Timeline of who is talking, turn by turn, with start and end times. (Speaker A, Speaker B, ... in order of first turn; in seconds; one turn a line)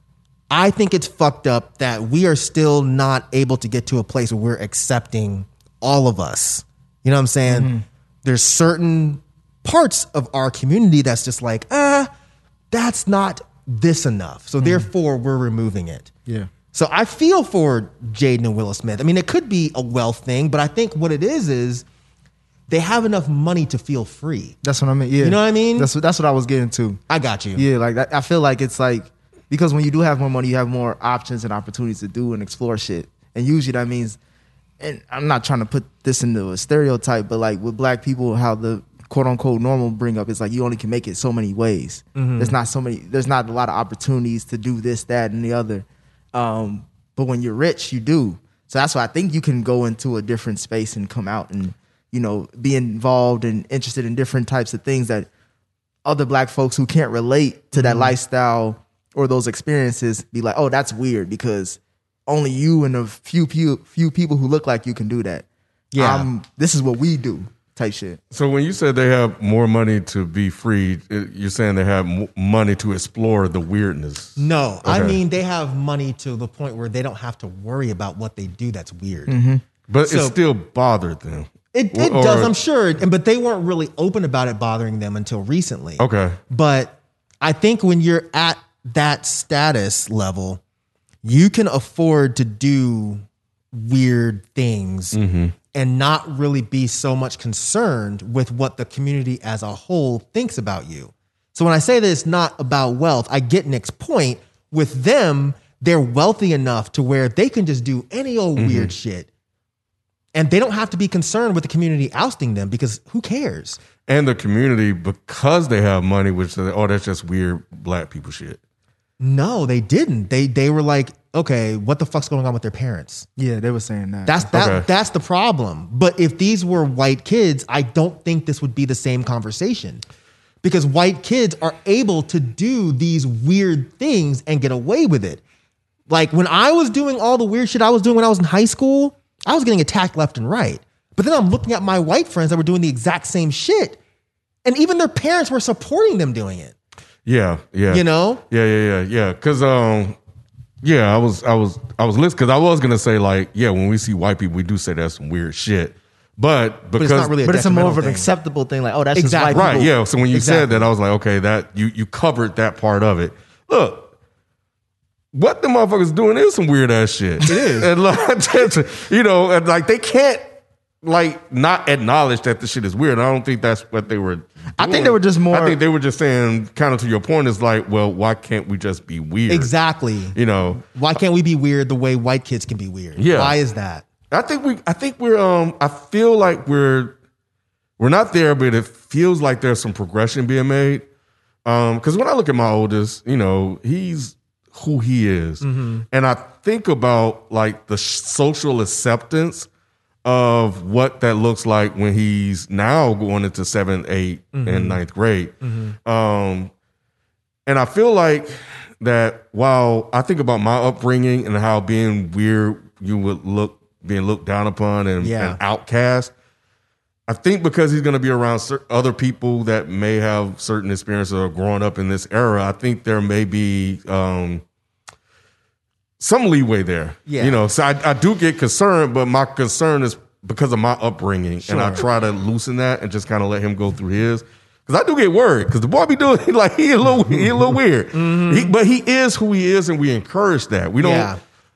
Speaker A: 0.5-7.7
Speaker B: 7.5-7.8
Speaker A: 8.2-12.1
Speaker A: 12.7-16.1
Speaker B: 14.6-14.9
Speaker A: 16.7-21.9
Speaker A: 22.7-24.6
Speaker B: 24.6-27.0
Speaker A: 25.2-25.9
Speaker A: 27.1-27.7
Speaker B: 27.6-34.2
Speaker B: 34.8-55.3
Speaker A: 42.2-42.5
Speaker B: 56.0-68.2
Speaker A: 57.7-58.1
Speaker A: 65.9-66.3
Speaker C: 68.3-75.2
Speaker A: 74.4-79.3
Speaker B: 79.3-79.6
Speaker C: 79.9-82.5
Speaker A: 80.0-80.4
Speaker A: 81.7-90.6
Speaker C: 86.0-86.4
Speaker A: 91.2-95.2
Speaker C: 95.1-95.5
Speaker A: 95.7-109.3
Speaker C: 108.6-108.9
Speaker A: 110.3-113.8
Speaker C: 114.0-118.6
Speaker A: 119.2-123.3
Speaker B: 123.4-124.5
Speaker A: 124.3-130.0
Speaker C: 124.5-124.9
Speaker A: 130.6-135.4
Speaker A: 136.1-144.0
Speaker A: 144.7-146.7
Speaker C: 147.3-150.2
Speaker A: 147.9-148.4
Speaker C: 150.8-157.4
Speaker A: 156.9-158.3
Speaker B: 157.4-159.9
Speaker A: 159.2-160.9
Speaker C: 159.5-164.1
Speaker C: 165.3-179.7
Speaker B: 167.5-167.9
Speaker B: 174.8-175.8
Speaker A: 179.5-184.1
Speaker C: 180.3-180.8
Speaker C: 183.2-183.6
Speaker C: 184.3-187.2
Speaker C: 188.0-191.1
Speaker C: 191.7-199.7
Speaker A: 195.6-196.1
Speaker C: 200.2-206.7
Speaker A: 204.5-205.0
Speaker A: 205.6-206.0
Speaker C: 207.7-216.3
Speaker A: 215.2-215.6
Speaker C: 217.3-224.6
Speaker C: 226.2-241.3
Speaker A: 227.3-227.6
Speaker A: 231.6-232.1
Speaker A: 238.1-238.8
Speaker A: 241.0-241.4